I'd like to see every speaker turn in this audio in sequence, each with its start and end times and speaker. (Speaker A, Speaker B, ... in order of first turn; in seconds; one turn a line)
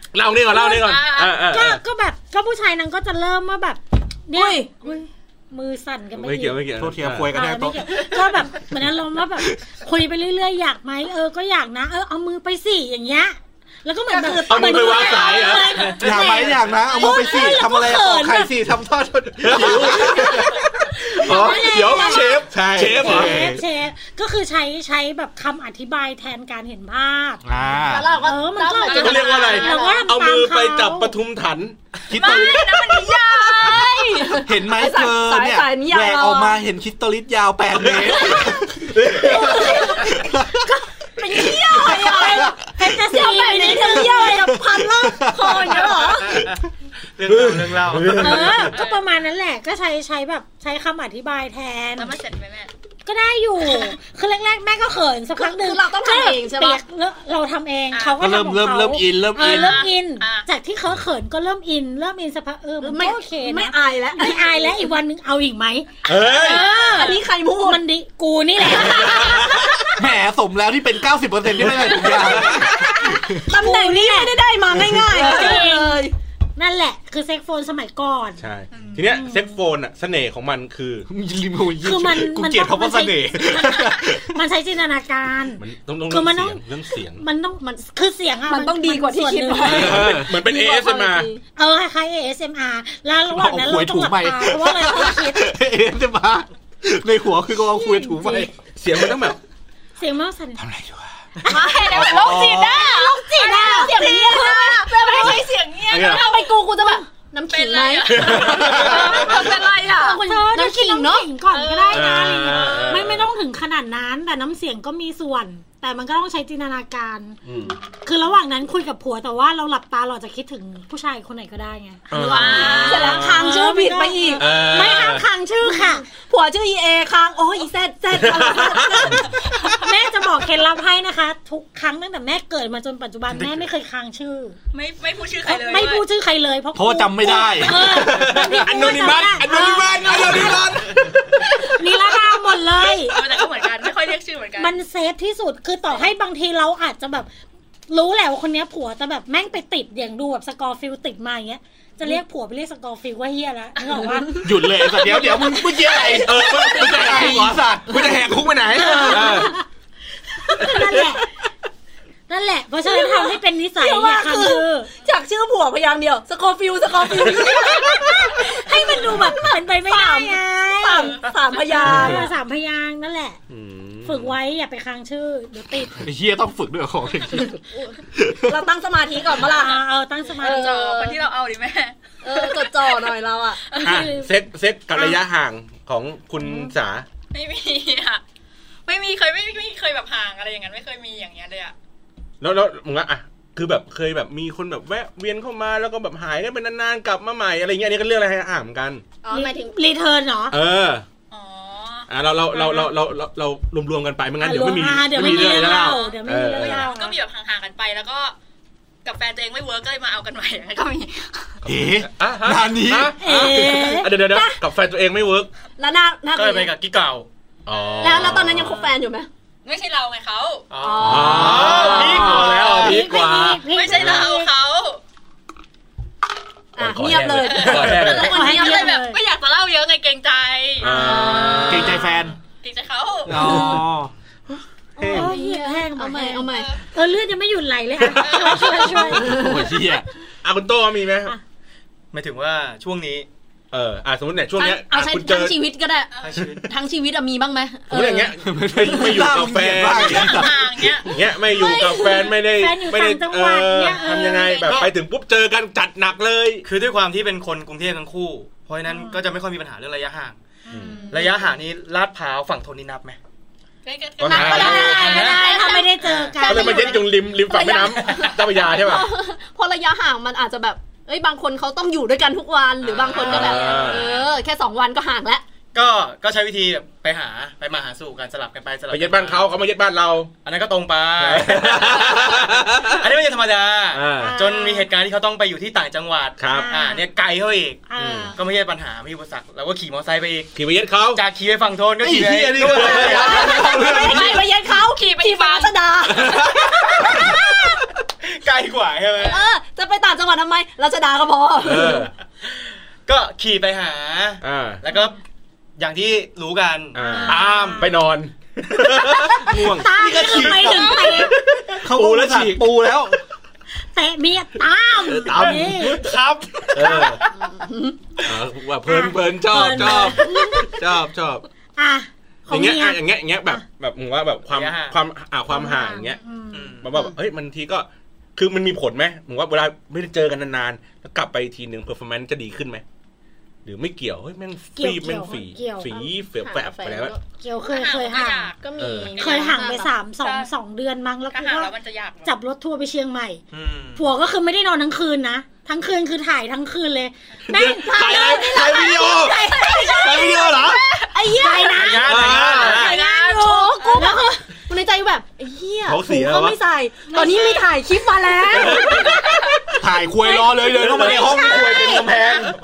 Speaker A: 0.1-1.8
Speaker B: 0.5-6.7
Speaker C: 0.8-1.4
Speaker D: 4.3-4.9
Speaker A: 6.1-7.3
Speaker E: 6.8-8.1
Speaker B: 7.3-18.5
Speaker A: 14.4-16.0
Speaker E: 16.0-23.6
Speaker C: 16.7-17.7
Speaker A: 19.4-23.5
Speaker B: 21.1-22.4
Speaker B: 23.0-27.4
Speaker E: 27.4-28.1
Speaker D: 27.8-30.1
Speaker B: 28.1-31.1
Speaker A: 28.9-31.9
Speaker E: 32.1-33.8
Speaker C: 32.1-34.4
Speaker D: 32.2-32.6
Speaker D: 33.3-36.6
Speaker E: 34.4-40.7
Speaker A: 37.8-38.2
Speaker D: 38.1-46.4
Speaker A: 38.9-40.0
Speaker E: 41.4-42.5
Speaker B: 41.7-44.5
Speaker E: 44.4-46.4
Speaker F: 46.2-46.6
Speaker F: 47.2-48.5
Speaker A: 47.2-48.7
Speaker B: 48.2-52.1
Speaker C: 48.6-49.0
Speaker C: 52.0-52.7
Speaker B: 53.0-69.6
Speaker D: 55.4-56.8
Speaker C: 57.9-58.2
Speaker E: 58.2-59.8
Speaker C: 59.3-60.5
Speaker D: 62.8-64.9
Speaker A: 66.0-66.6
Speaker D: 66.3-67.8
Speaker C: 66.5-67.2
Speaker A: 68.8-69.7
Speaker E: 69.9-73.5
Speaker D: 71.6-76.1
Speaker B: 73.5-74.4
Speaker B: 74.9-76.0
Speaker B: 76.5-78.4
Speaker A: 78.4-81.1
Speaker C: 78.7-79.0
Speaker B: 79.0-79.5
Speaker E: 81.1-84.4
Speaker B: 81.8-86.6
Speaker A: 85.6-87.2
Speaker B: 87.1-90.2
Speaker D: 88.5-91.4
Speaker A: 89.6-91.3
Speaker B: 91.5-95.5
Speaker E: 93.3-98.5
Speaker B: 98.0-98.4
Speaker A: 98.7-99.4
Speaker B: 100.0-100.6
Speaker A: 100.6-101.0
Speaker B: 101.4-102.0
Speaker C: 101.4-106.5
Speaker D: 101.8-111.3
Speaker E: 101.9-102.8
Speaker B: 102.9-104.0
Speaker A: 105.9-106.2
Speaker C: 107.5-110.2
Speaker A: 108.1-109.2
Speaker E: 108.3-109.0
Speaker B: 110.0-126.0
Speaker C: 111.5-112.8
Speaker A: 111.9-113.3
Speaker A: 117.4-117.8
Speaker A: 122.1-123.5
Speaker D: 122.1-124.6
Speaker C: 122.1-123.3
Speaker A: 124.4-125.2
Speaker D: 125.6-129.4
Speaker A: 128.1-129.2
Speaker B: 129.6-134.6
Speaker C: 134.7-136.0
Speaker B: 135.4-140.7
Speaker E: 136.7-138.5
Speaker A: 137.7-140.9
Speaker E: 139.4-141.4
Speaker B: 141.5-143.4
Speaker C: 142.8-144.8
Speaker B: 144.6-147.3
Speaker B: 147.9-156.2
Speaker E: 154.4-159.2
Speaker A: 156.2-159.5
Speaker D: 156.8-157.2
Speaker B: 158.7-159.6
Speaker B: 160.5-161.3
Speaker B: 162.3-164.9
Speaker D: 162.8-172.3
Speaker B: 167.4-173.4
Speaker A: 173.5-174.3
Speaker B: 174.0-176.0
Speaker E: 176.0-177.6
Speaker D: 177.4-179.8
Speaker E: 178.1-178.6
Speaker B: 179.4-180.7
Speaker D: 180.4-181.2
Speaker C: 180.4-183.1
Speaker D: 182.2-183.6
Speaker C: 183.7-184.1
Speaker B: 183.8-184.3
Speaker A: 183.8-187.0
Speaker B: 184.9-185.2
Speaker B: 186.4-186.7
Speaker C: 187.3-188.2
Speaker C: 188.8-191.7
Speaker A: 192.4-199.0
Speaker D: 199.2-199.8
Speaker B: 199.3-200.5
Speaker A: 200.5-201.0
Speaker C: 201.3-202.7
Speaker A: 202.1-206.8
Speaker B: 202.6-202.9
Speaker B: 204.4-207.2
Speaker E: 205.2-205.6
Speaker C: 205.5-208.3
Speaker C: 209.0-211.6
Speaker E: 211.6-213.2
Speaker A: 212.1-215.5
Speaker B: 213.2-214.1
Speaker D: 213.3-214.6
Speaker D: 215.8-216.7
Speaker F: 216.3-217.3
Speaker A: 217.7-218.8
Speaker C: 217.7-218.4
Speaker D: 218.0-219.3
Speaker C: 219.6-220.7
Speaker F: 220.7-223.0
Speaker D: 220.8-222.5
Speaker A: 221.0-224.2
Speaker B: 222.0-224.5
Speaker C: 223.7-225.0
Speaker D: 226.8-228.9
Speaker A: 226.8-228.3
Speaker C: 227.4-232.0
Speaker B: 228.0-229.2
Speaker A: 230.8-232.1
Speaker B: 230.9-231.3
Speaker D: 231.2-231.7
Speaker E: 231.7-232.3
Speaker C: 232.6-233.7
Speaker E: 233.3-234.1
Speaker A: 233.3-233.8
Speaker D: 233.4-233.8
Speaker D: 234.9-236.7
Speaker B: 235.1-239.4
Speaker C: 236.5-236.8
Speaker C: 238.1-239.2
Speaker E: 238.9-240.1
Speaker D: 239.1-239.8
Speaker A: 240.4-241.3
Speaker F: 242.1-243.3
Speaker A: 243.7-245.6
Speaker D: 244.5-248.3
Speaker C: 246.1-246.4
Speaker F: 246.2-246.7
Speaker A: 247.9-256.7
Speaker E: 248.4-250.9
Speaker C: 249.9-251.1
Speaker D: 251.4-252.3
Speaker B: 252.3-254.8
Speaker C: 254.1-254.9
Speaker F: 256.6-260.4
Speaker B: 258.9-259.2
Speaker B: 260.7-261.4
Speaker A: 260.7-261.0
Speaker C: 260.8-261.3
Speaker F: 261.1-263.2
Speaker C: 263.8-265.9
Speaker A: 264.2-265.0
Speaker D: 264.3-275.4
Speaker F: 264.4-265.4
Speaker B: 264.4-267.2
Speaker F: 266.0-266.4
Speaker A: 266.4-269.1
Speaker F: 272.8-274.2
Speaker C: 273.1-274.2
Speaker A: 273.1-274.1
Speaker F: 275.7-279.5
Speaker A: 278.9-280.3
Speaker F: 280.4-290.5
Speaker A: 281.2-283.0
Speaker A: 283.9-284.4
Speaker B: 284.2-284.9
Speaker A: 286.4-286.7
Speaker B: 286.5-287.1
Speaker B: 287.9-288.4
Speaker A: 288.0-288.3
Speaker A: 290.5-291.2
Speaker F: 291.1-293.7
Speaker E: 292.0-294.4
Speaker A: 292.6-293.5
Speaker D: 292.9-297.9
Speaker C: 293.4-295.7
Speaker A: 296.1-297.3
Speaker F: 298.2-299.4
Speaker D: 299.2-302.1
Speaker A: 301.6-302.1
Speaker F: 302.4-305.2
Speaker A: 304.4-304.8
Speaker F: 305.8-307.9
Speaker A: 306.9-309.9
Speaker B: 306.9-307.9
Speaker B: 309.4-311.4
Speaker E: 309.9-311.2
Speaker C: 310.6-311.3
Speaker A: 311.7-312.7
Speaker E: 311.7-313.2
Speaker B: 313.9-316.1
Speaker A: 315.0-316.1
Speaker F: 315.3-317.3
Speaker A: 316.7-317.2
Speaker D: 317.3-318.0
Speaker A: 318.2-321.4
Speaker B: 318.8-320.8
Speaker B: 321.8-323.6
Speaker A: 322.5-326.2
Speaker F: 324.5-325.0
Speaker B: 325.5-326.8
Speaker F: 326.5-326.9
Speaker A: 326.8-332.8
Speaker A: 333.6-337.1
Speaker B: 334.8-335.9
Speaker D: 335.9-337.2
Speaker B: 337.4-338.5
Speaker C: 337.6-340.5
Speaker D: 338.6-339.9
Speaker A: 338.8-339.2
Speaker B: 339.1-341.7
Speaker C: 341.3-342.3
Speaker B: 342.2-343.4
Speaker F: 343.5-344.1
Speaker B: 343.9-349.1
Speaker A: 347.5-350.8
Speaker D: 347.8-362.1
Speaker C: 349.6-351.1
Speaker B: 351.3-352.5
Speaker F: 351.7-353.0
Speaker A: 352.0-353.0
Speaker C: 352.5-354.1
Speaker B: 353.6-354.4
Speaker A: 355.8-356.6
Speaker B: 357.1-357.6
Speaker C: 357.1-357.6
Speaker A: 358.5-359.2
Speaker C: 358.9-359.4
Speaker E: 359.8-362.6
Speaker B: 361.1-361.6
Speaker C: 361.3-362.5